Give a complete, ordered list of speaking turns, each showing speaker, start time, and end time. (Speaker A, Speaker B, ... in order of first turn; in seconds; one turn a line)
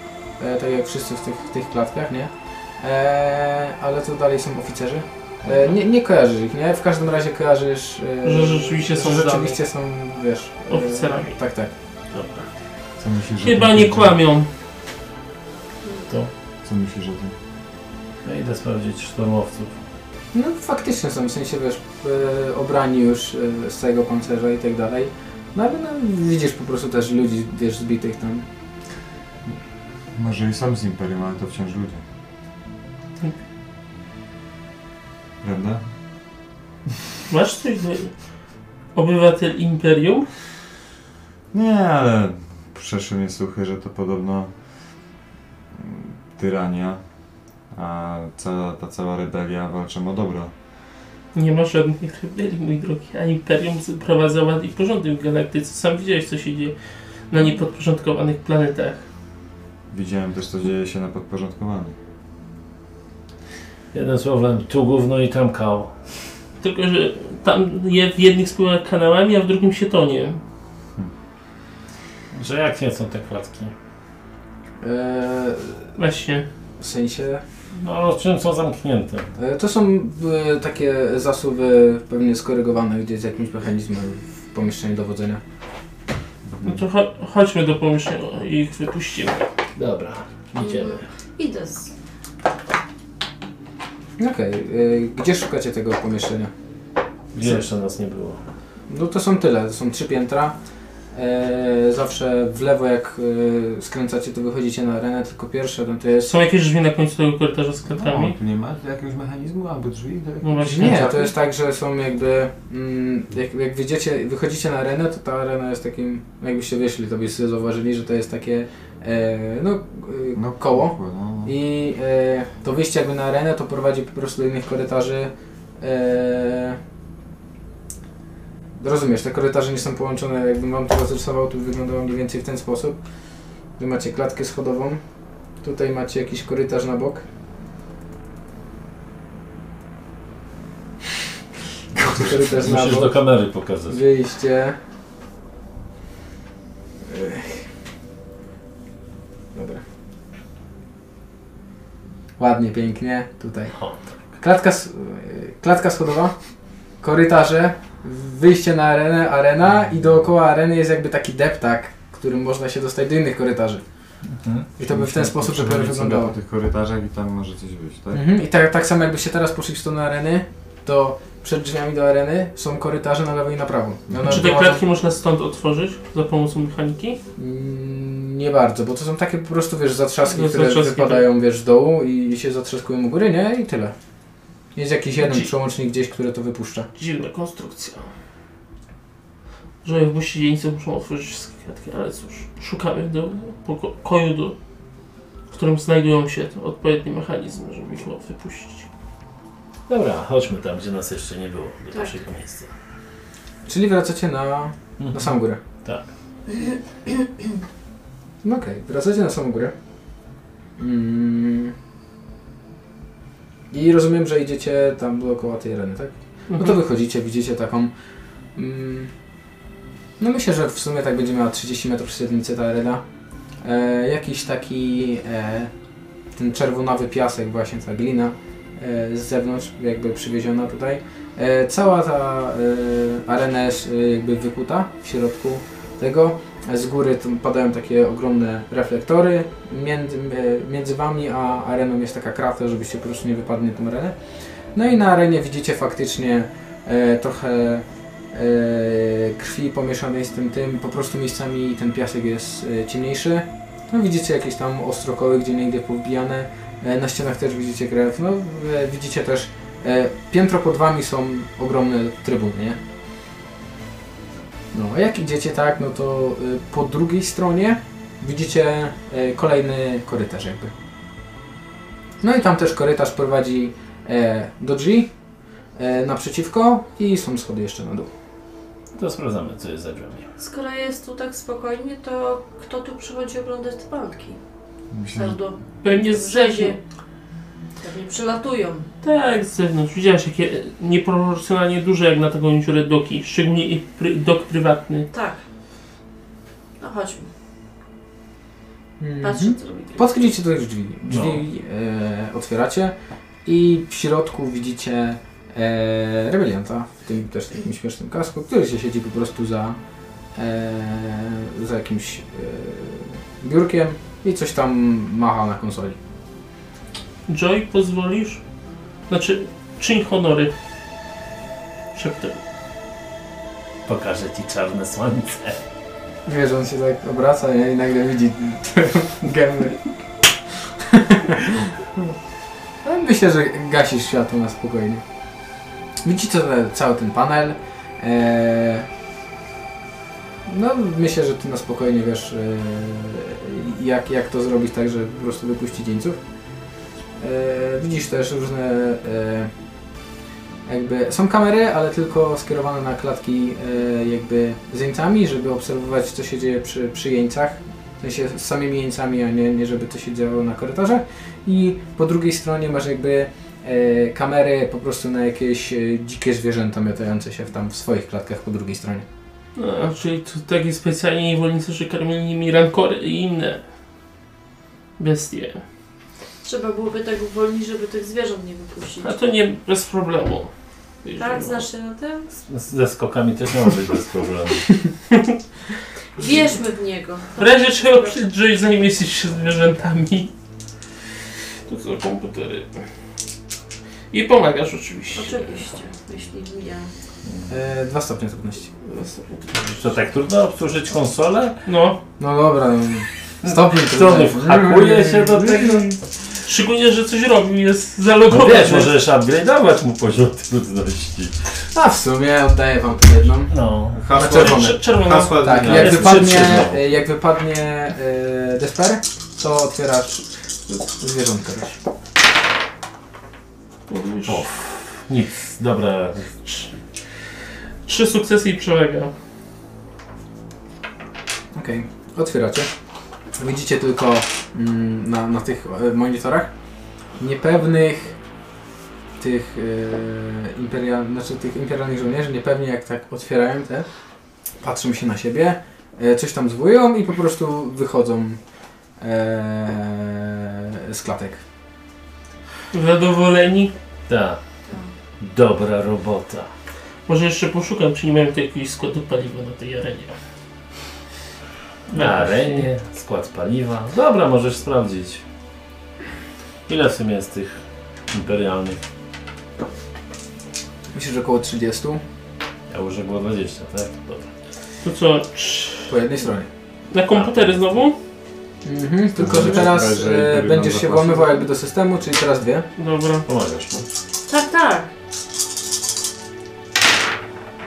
Speaker A: 0.4-11.7
Speaker B: 8.2-9.6
Speaker B: 10.7-11.4
Speaker B: 12.1-12.5
Speaker C: 13.0-14.2
Speaker B: 13.4-14.5
Speaker C: 16.6-17.4
Speaker D: 18.2-19.7
Speaker A: 20.3-28.4
Speaker C: 30.1-32.0
Speaker C: 35.4-35.8
Speaker B: 37.3-38.1
Speaker B: 38.9-40.3
Speaker C: 41.5-44.5
Speaker C: 45.7-47.0
Speaker C: 47.7-50.5
Speaker B: 51.3-56.8
Speaker B: 57.3-59.0
Speaker C: 59.9-62.0
Speaker D: 63.9-65.9
Speaker B: 66.6-70.4
Speaker D: 72.3-73.7
Speaker A: 74.8-75.9
Speaker B: 76.0-76.5
Speaker A: 76.8-77.4
Speaker D: 77.7-79.3
Speaker A: 79.4-85.4
Speaker B: 86.6-89.5
Speaker D: 89.8-91.0
Speaker E: 90.6-91.9
Speaker A: 94.2-96.5
Speaker D: 97.3-98.4
Speaker A: 98.9-100.6
Speaker A: 101.1-106.3
Speaker B: 106.2-108.4
Speaker C: 107.9-111.0
Speaker B: 110.4-111.3
Speaker A: 110.6-126.8
Speaker C: 120.3-121.5
Speaker A: 128.8-133.0
Speaker A: 133.8-135.0
Speaker A: 135.6-137.2
Speaker C: 142.0-142.3
Speaker A: 142.1-143.2
Speaker D: 142.3-144.0
Speaker A: 143.9-144.8
Speaker A: 147.1-147.7
Speaker A: 149.5-149.8
Speaker A: 152.4-153.8
Speaker A: 154.4-156.4
Speaker A: 157.0-163.8
Speaker D: 164.4-164.7
Speaker A: 164.8-166.3
Speaker C: 164.8-168.2
Speaker A: 168.1-174.8
Speaker C: 174.1-174.4
Speaker B: 174.2-177.2
Speaker A: 177.4-183.9
Speaker B: 180.3-181.3
Speaker A: 184.8-186.9
Speaker B: 185.2-185.5
Speaker B: 187.0-188.1
Speaker B: 189.8-194.6
Speaker B: 195.5-198.9
Speaker D: 199.9-202.7
Speaker A: 203.7-205.6
Speaker D: 205.0-205.3
Speaker A: 208.4-209.7
Speaker A: 210.8-211.7
Speaker A: 213.7-217.9
Speaker B: 216.5-216.8
Speaker A: 218.6-219.1
Speaker A: 220.2-223.0
Speaker A: 223.6-225.7
Speaker A: 226.4-244.2
Speaker A: 244.7-262.8
Speaker A: 264.7-270.7
Speaker A: 272.2-275.1
Speaker A: 275.8-278.1
Speaker D: 278.9-280.3
Speaker E: 280.4-284.4
Speaker C: 284.9-285.4
Speaker E: 285.1-286.8
Speaker B: 285.8-286.8
Speaker E: 287.8-288.9
Speaker B: 289.0-295.1
Speaker E: 295.1-295.4
Speaker E: 296.8-297.3
Speaker A: 299.0-309.8
Speaker E: 299.2-300.1
Speaker D: 301.1-301.4
Speaker A: 310.4-316.0
Speaker B: 317.3-318.4
Speaker B: 319.1-320.5
Speaker B: 321.9-322.4
Speaker D: 323.9-325.6
Speaker A: 326.3-329.9
Speaker A: 330.9-331.6
Speaker A: 332.8-335.0
Speaker A: 336.0-338.9
Speaker A: 340.5-346.2
Speaker A: 347.2-349.5
Speaker A: 350.7-369.1
Speaker B: 369.6-373.6
Speaker B: 375.0-375.6
Speaker E: 376.4-379.1
Speaker B: 379.0-380.5
Speaker B: 381.0-381.7
Speaker E: 381.2-382.3
Speaker D: 382.4-384.8
Speaker E: 386.2-388.1
Speaker B: 387.4-390.3
Speaker B: 391.7-392.9
Speaker B: 394.1-395.6
Speaker E: 395.1-396.9
Speaker A: 397.5-398.7
Speaker B: 398.8-399.6
Speaker D: 399.6-401.6
Speaker B: 401.7-402.0
Speaker A: 402.2-406.0
Speaker D: 403.4-406.0
Speaker B: 406.4-408.9
Speaker D: 408.3-411.4
Speaker A: 411.7-413.5
Speaker D: 413.5-414.0
Speaker C: 413.9-416.7
Speaker A: 414.1-421.8
Speaker B: 414.2-416.1
Speaker D: 415.5-416.8
Speaker B: 423.9-424.4
Speaker D: 424.3-426.4
Speaker B: 427.9-429.1
Speaker A: 431.5-432.7
Speaker A: 433.4-436.5
Speaker A: 437.2-438.2
Speaker A: 439.2-443.9
Speaker A: 444.6-448.4
Speaker A: 449.0-451.4
Speaker B: 452.7-453.7
Speaker D: 454.1-454.4
Speaker D: 455.2-456.5
Speaker B: 457.1-460.1
Speaker B: 461.9-462.7
Speaker D: 461.9-465.2
Speaker D: 466.7-467.6
Speaker D: 468.1-468.8
Speaker A: 470.9-472.0
Speaker D: 472.7-474.3
Speaker B: 474.8-475.9
Speaker A: 475.9-476.5
Speaker B: 476.9-478.0
Speaker D: 477.1-477.6
Speaker A: 478.6-482.7
Speaker C: 479.2-481.4
Speaker B: 482.8-483.3
Speaker D: 483.3-483.9
Speaker E: 484.3-484.9